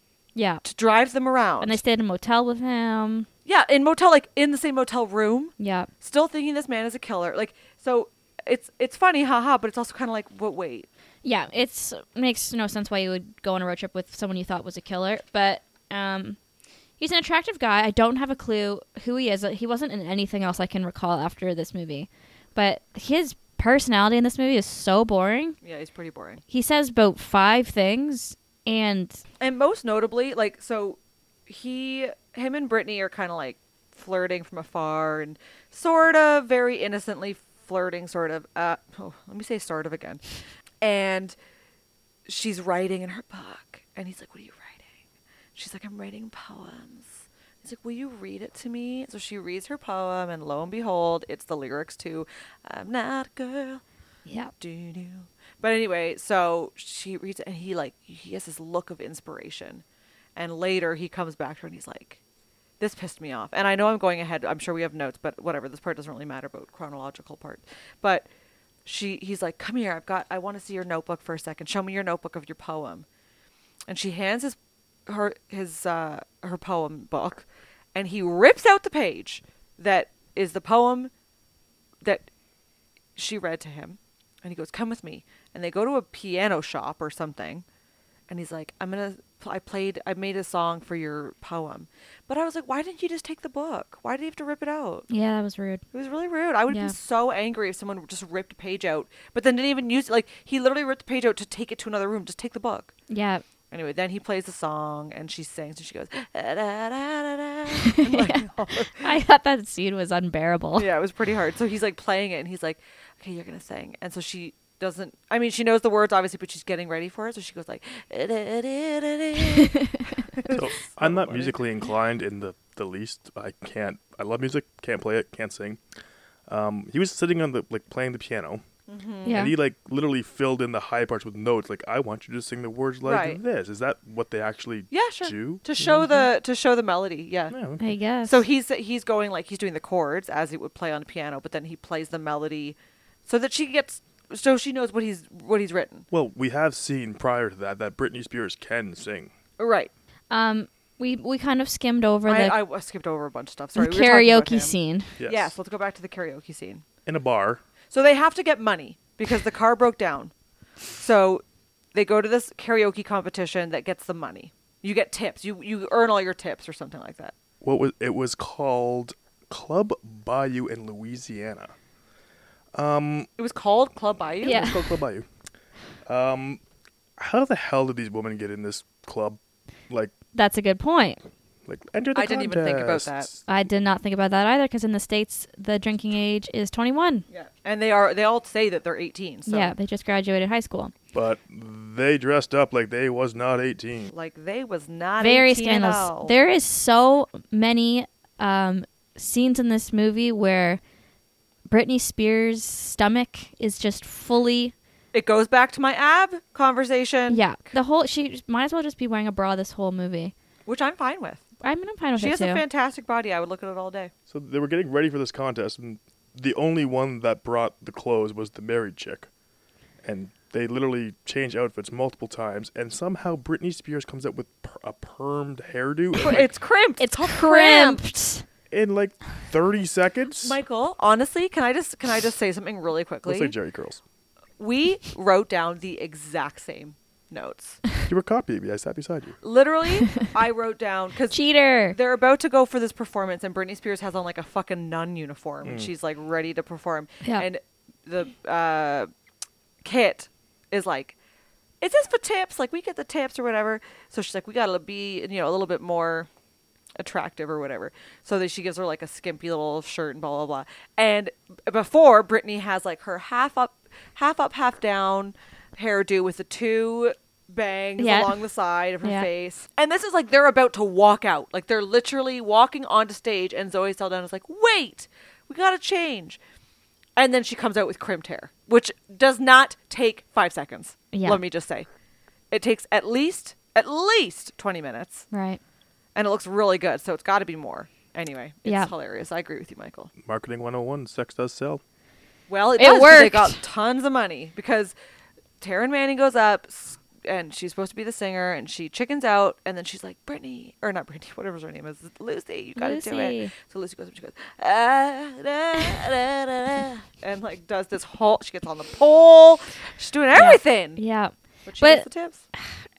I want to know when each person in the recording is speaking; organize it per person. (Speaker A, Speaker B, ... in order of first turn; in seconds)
Speaker A: 0.3-0.6, 1.6-3.3, 5.6-5.9, 11.2-16.4, 17.0-25.6, 26.5-29.2, 54.3-54.5, 95.1-95.8, 96.7-97.0, 103.1-103.4, 107.9-110.9, 119.5-120.1, 129.2-129.5, 137.8-138.4, 150.3-152.6, 153.8-155.1, 174.4-174.8, 180.3-181.2, 183.5-187.3, 189.5-190.9, 195.2-200.8, 201.7-204.7, 207.3-210.3, 211.6-212.6, 227.0-228.4, 241.3-242.0, 268.0-268.4, 269.0-269.3, 281.1-281.4, 285.3-285.6, 288.6-288.9, 292.8-293.6, 302.8-303.5, 310.4-312.1
Speaker B: 0.6-1.8, 3.5-10.9, 25.6-26.4, 29.4-40.2, 40.8-41.4, 42.3-44.9, 45.5-53.8, 54.6-59.8, 60.4-62.2, 62.8-68.3, 68.8-73.1, 73.9-81.1, 83.2-87.7, 88.3-95.1, 95.9-102.9, 103.7-109.1, 110.8-121.6, 128.9-129.4, 133.1-133.4, 134.9-137.6, 138.2-146.1, 149.6-149.9, 152.3-156.8, 157.9-161.4, 161.9-167.3, 173.4-174.8, 182.2-183.3, 187.3-189.7, 194.1-196.3, 205.1-207.4, 210.7-211.4, 212.2-214.1, 226.2-228.0, 230.4-233.5, 234.6-237.8, 239.4-249.1, 249.8-251.2, 251.8-256.3, 257.0-276.4, 277.2-281.9, 282.5-285.3, 286.1-290.1, 292.5-294.9, 295.6-311.0, 311.6-312.4
Speaker C: 120.5-125.8, 126.5-128.6, 129.3-136.1, 137.5-137.9, 146.1-149.3, 155.2-155.6, 157.1-157.6, 167.6-171.7, 172.7-173.3, 174.4-175.3, 176.1-176.6, 177.2-180.1, 181.7-183.4, 191.1-194.1, 214.3-219.3, 220.0-226.5, 228.7-230.6, 233.2-234.0, 238.1-239.4, 245.6-245.9, 290.2-291.8